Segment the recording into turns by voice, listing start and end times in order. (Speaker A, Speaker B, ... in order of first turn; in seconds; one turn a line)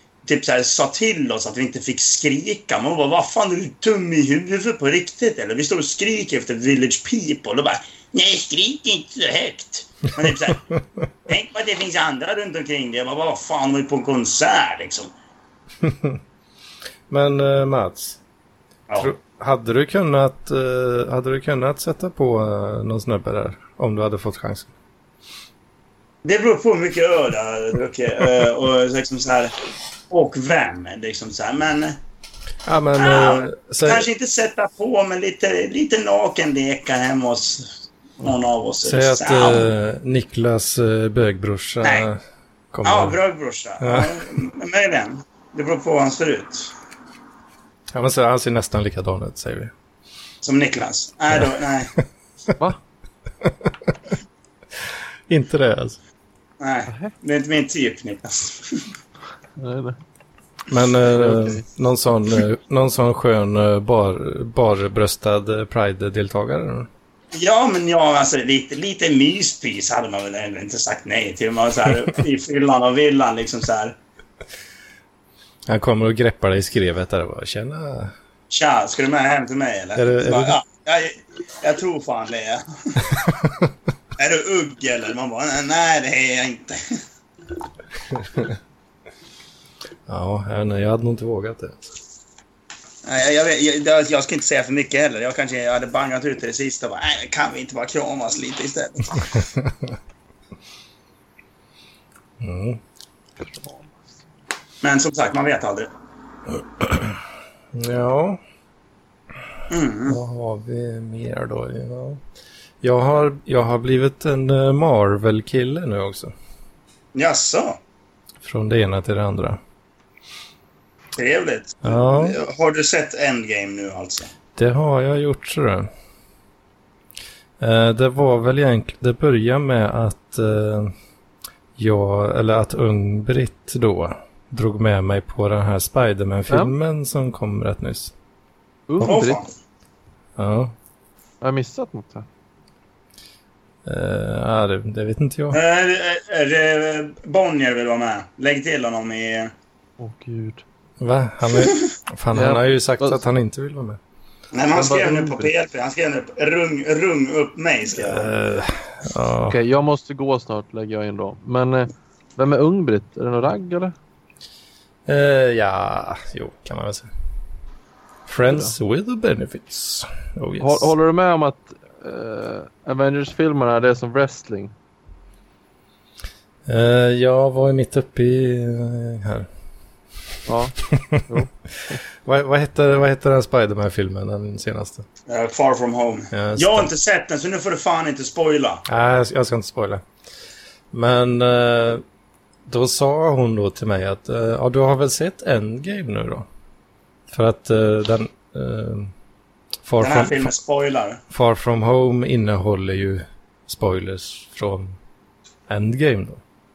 Speaker A: 0.2-10.7
Speaker A: 11.3-15.1
Speaker B: 15.8-16.2
Speaker B: 17.1-18.2
Speaker B: 19.0-24.7
Speaker A: 26.2-29.6
Speaker A: 30.1-32.0
Speaker B: 32.6-34.1
Speaker A: 33.0-39.7
Speaker B: 38.8-42.2
Speaker B: 42.7-43.2
Speaker A: 42.8-46.7
Speaker B: 43.8-44.2
Speaker B: 47.9-49.7
Speaker A: 50.4-51.9
Speaker B: 53.4-53.9
Speaker B: 55.3-56.0
Speaker A: 56.6-58.9
Speaker C: 56.9-57.1
Speaker C: 59.6-60.0
Speaker B: 60.7-66.9
Speaker C: 61.1-61.6
Speaker A: 67.3-74.0
Speaker B: 75.7-78.1
Speaker A: 78.5-83.1
Speaker B: 80.0-80.6
Speaker A: 84.2-86.8
Speaker B: 90.1-91.8
Speaker A: 93.0-99.2
Speaker B: 99.3-100.0
Speaker B: 102.4-102.8
Speaker C: 103.4-104.1
Speaker A: 104.8-105.9
Speaker B: 106.5-107.2
Speaker B: 107.7-108.4
Speaker A: 109.7-110.2
Speaker B: 110.1-112.2
Speaker B: 112.8-116.3
Speaker A: 117.2-117.8
Speaker B: 118.4-119.6
Speaker A: 121.2-124.3
Speaker B: 121.8-122.4
Speaker B: 124.6-125.9
Speaker B: 127.6-130.9
Speaker B: 131.8-138.1
Speaker C: 136.5-136.8
Speaker C: 138.9-139.4
Speaker A: 139.0-139.5
Speaker B: 140.4-140.7
Speaker C: 141.4-142.3
Speaker B: 143.8-145.6
Speaker A: 145.5-149.5
Speaker C: 150.0-150.6
Speaker B: 151.0-154.0
Speaker C: 152.3-153.2
Speaker A: 154.5-158.3
Speaker C: 154.7-155.5
Speaker B: 158.0-159.6
Speaker C: 159.5-163.9
Speaker B: 165.1-167.1
Speaker B: 168.3-170.9
Speaker C: 168.5-168.7
Speaker C: 170.6-174.7
Speaker B: 176.7-179.5
Speaker C: 180.5-180.8
Speaker B: 180.9-181.2
Speaker C: 181.3-181.9
Speaker B: 181.9-185.1
Speaker A: 185.3-188.8
Speaker B: 186.3-186.9
Speaker B: 188.9-190.0
Speaker B: 190.9-192.0
Speaker B: 192.7-196.5
Speaker B: 197.3-199.1
Speaker B: 199.8-200.5
Speaker A: 200.0-201.2
Speaker B: 201.3-205.0
Speaker B: 205.7-206.4